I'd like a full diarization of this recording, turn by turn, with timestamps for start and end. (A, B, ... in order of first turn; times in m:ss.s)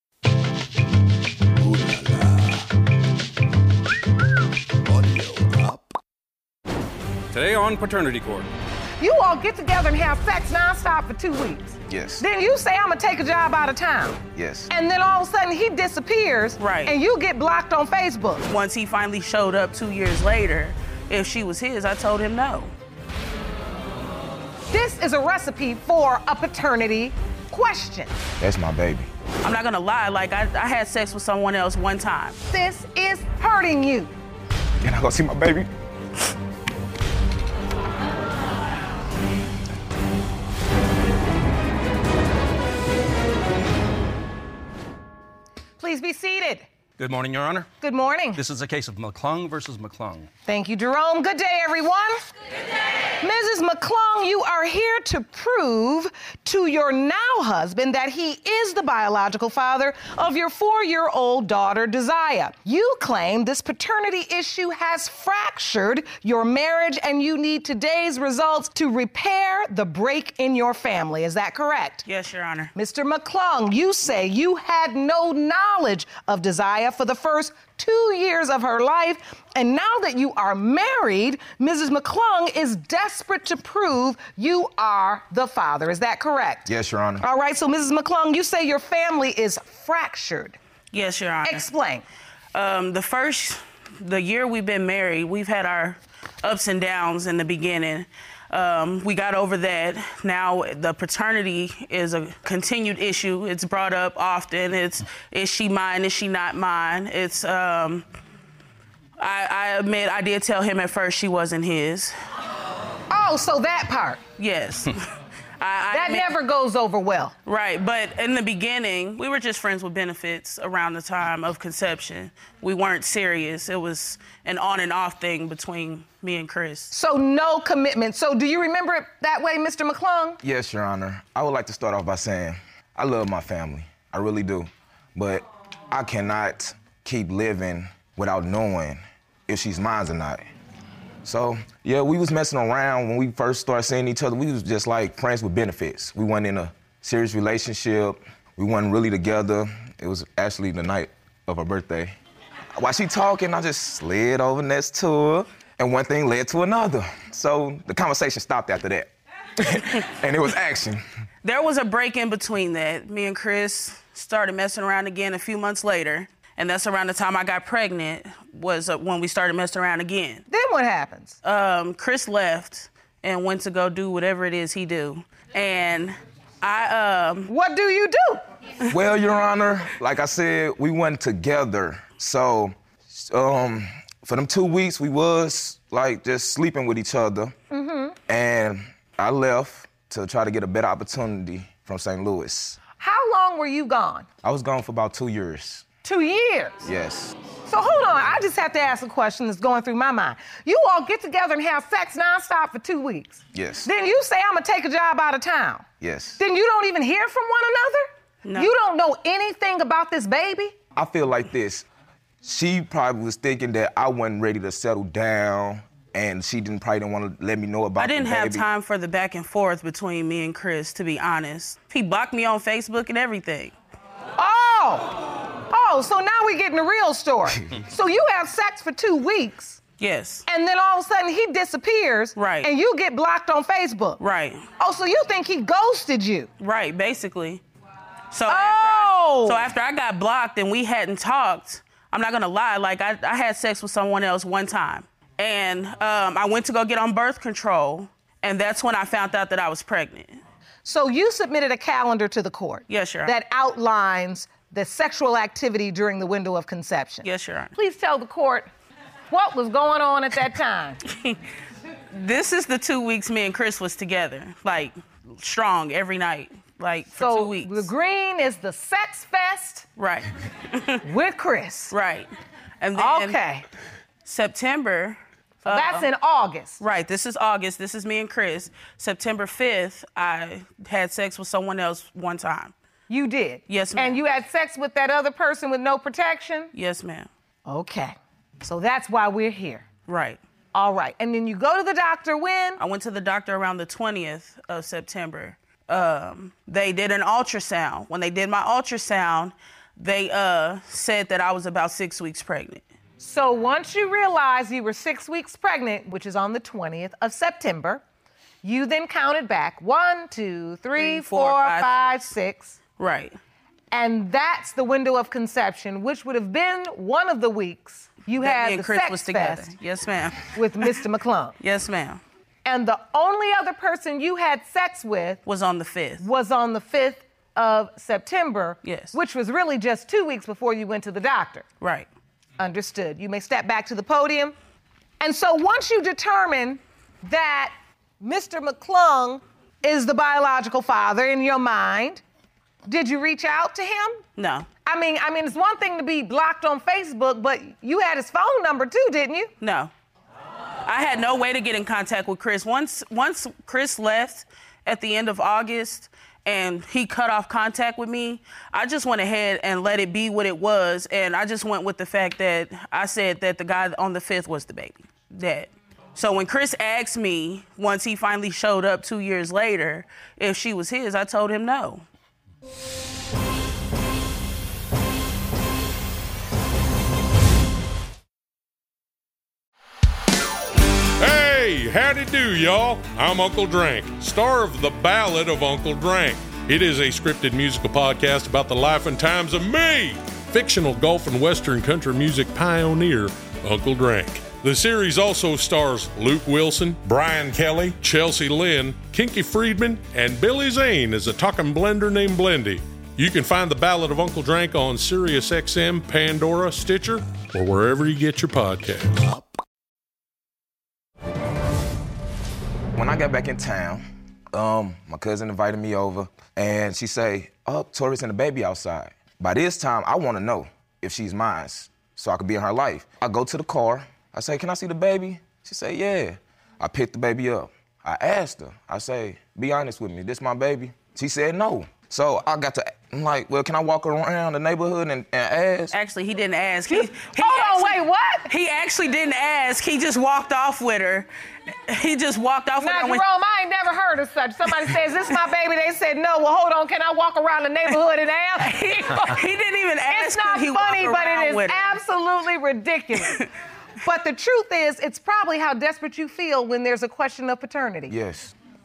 0:01.8-0:02.2 A
0:04.9-0:05.7 A
0:07.3-0:08.5 A
0:09.0-0:18.4 B
0:11.9-0:12.2 C
0:14.3-0:14.7 C
0:16.6-0:16.9 D
0:18.5-0:22.7 D
0:24.7-0:28.1 B
0:28.4-0:29.1 C
0:29.4-0:32.4 D
0:32.4-0:34.1 B
0:34.8-0:35.7 C
0:45.8-0:46.6 B
0:47.0-0:47.7 A
0:47.8-0:48.4 B
0:48.3-0:50.3 A
0:50.4-0:52.2 B
0:53.2-1:12.0 B
1:12.0-1:12.7 D
1:12.7-1:26.7 B
1:26.6-1:27.2 C
1:27.2-1:30.6 B
1:30.9-1:31.7 D
1:31.4-1:32.0 B
1:32.5-1:48.1 D
1:49.2-1:52.1 D
1:53.1-1:54.2 B
1:54.4-1:56.3 D
1:55.9-1:57.3 B
1:57.4-2:06.9 D
2:06.9-2:10.4 B
2:10.4-2:20.4 C
2:21.2-2:32.1 C
2:32.8-2:41.0 C
2:41.4-2:50.4 D
2:50.5-2:51.4 B
2:51.4-2:57.5 D
2:57.5-2:58.4 B
2:58.9-3:07.5 C
3:07.7-3:08.2 B
3:08.3-3:12.8 C
3:13.0-3:14.2 B
3:14.4-3:15.8 C
3:16.0-3:16.9 B
3:16.8-3:17.4 C
3:17.6-3:25.8 B
3:23.5-3:23.9 C
3:26.0-3:26.4 C
3:26.4-3:28.0 B
3:28.4-3:28.7 D
3:28.5-3:30.7 B
3:30.9-3:31.8 C
3:32.4-3:38.7 C
3:38.0-3:43.7 D
3:44.4-3:49.8 B
3:50.0-3:50.4 D
3:50.5-3:54.2 B
3:52.4-3:52.7 D
3:54.2-3:54.6 D
3:54.8-3:56.5 B
3:56.6-3:57.6 D
3:58.3-4:10.4 D
3:58.5-3:59.6 B
4:10.8-4:18.7 B
4:12.9-4:13.3 D
4:17.2-4:17.7 D
4:19.3-4:21.0 B
4:22.1-4:27.9 D
4:27.2-4:29.9 B
4:30.0-4:31.0 D
4:31.0-4:31.9 B
4:31.9-4:32.3 D
4:32.8-4:33.4 D
4:32.9-4:33.6 B
4:34.2-4:36.1 D
4:35.7-4:36.8 B
4:36.8-4:42.7 D
4:43.1-4:46.7 B
4:43.7-4:44.2 D
4:46.7-4:47.3 D
4:47.6-4:49.8 B
4:50.1-4:50.4 D
4:50.7-4:52.8 B
4:52.8-5:02.8 D
5:03.2-5:08.0 B
5:08.6-5:12.7 B
5:11.0-5:12.2 D
5:13.0-5:13.4 D
5:13.9-5:19.7 B
5:18.4-5:20.9 D
5:20.5-5:21.6 B
5:21.6-5:22.2 D
5:22.6-5:25.4 B
5:25.4-5:26.2 D
5:26.2-5:31.6 B
5:28.8-5:29.1 D
5:31.8-5:32.1 D
5:32.6-5:34.5 B
5:35.2-5:42.2 B
5:42.8-5:44.2 B
5:44.4-5:44.6 D
5:44.8-5:49.5 B
5:49.6-5:49.9 D
5:50.8-6:12.0 D
6:21.2-6:49.3 E
6:53.0-7:15.9 C
7:15.9-7:21.3 D
7:16.9-7:18.5 B
7:21.9-7:23.2 D
7:22.8-7:29.2 B
7:28.6-7:32.0 D
7:30.1-7:33.5 B
7:33.2-7:33.4 D
7:34.0-7:38.2 B
7:38.1-7:38.5 C